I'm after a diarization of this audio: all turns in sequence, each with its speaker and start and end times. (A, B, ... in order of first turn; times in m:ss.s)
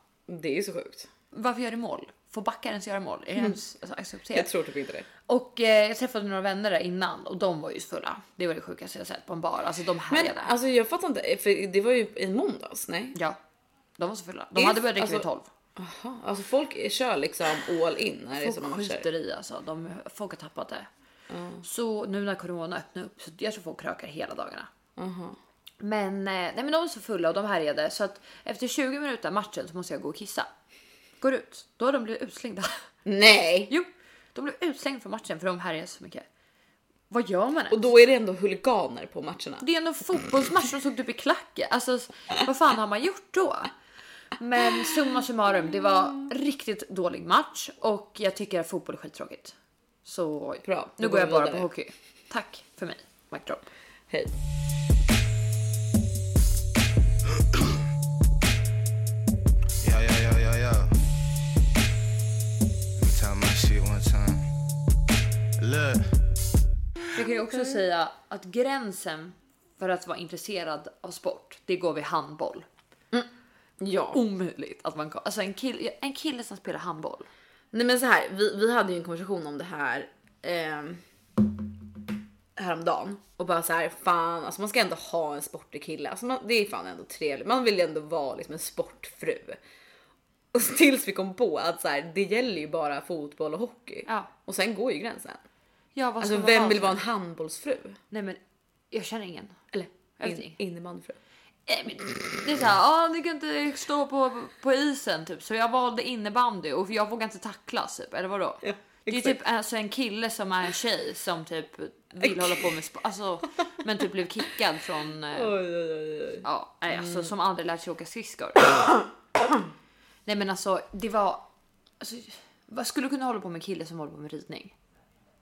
0:00.3-0:01.1 A
0:01.3-0:04.5 B
0:04.3-0:05.1 A
0:05.3-0:10.5 B
0:10.1-0:13.2 A
0:14.0-0:15.5 B
0:14.6-0:19.0 A
0:18.4-0:20.9 B
0:21.3-0:21.6 A
0:21.6-0:24.7 B
0:25.0-0:25.4 A
0:25.8-0:30.5 B
0:31.2-0:32.8 B
0:33.0-0:33.7 A
0:33.7-0:36.2 B
0:37.1-0:37.8 B
0:37.7-0:39.6 A
0:39.6-0:43.7 B
0:44.4-0:49.5 B
0:50.0-0:53.7 B
0:50.6-0:51.7 A
0:59.8-1:01.0 C
1:03.0-1:04.5 C
1:05.6-1:06.2 C
1:07.1-1:12.6 B
1:13.8-1:14.2 A
1:14.1-1:17.3 B
1:17.7-1:21.0 A
1:22.6-1:29.6 A
1:30.5-1:35.4 A
1:35.9-1:37.0 B
1:36.2-1:38.0 A
1:38.1-1:38.4 B
1:38.9-1:39.6 B
1:39.7-1:41.2 A
1:40.2-1:40.6 B
1:41.7-1:55.5 B
1:48.6-1:49.4 A
1:52.2-1:52.7 A
1:55.3-1:57.3 A
1:56.4-1:58.9 B
2:00.2-2:01.4 B
2:02.0-2:04.7 B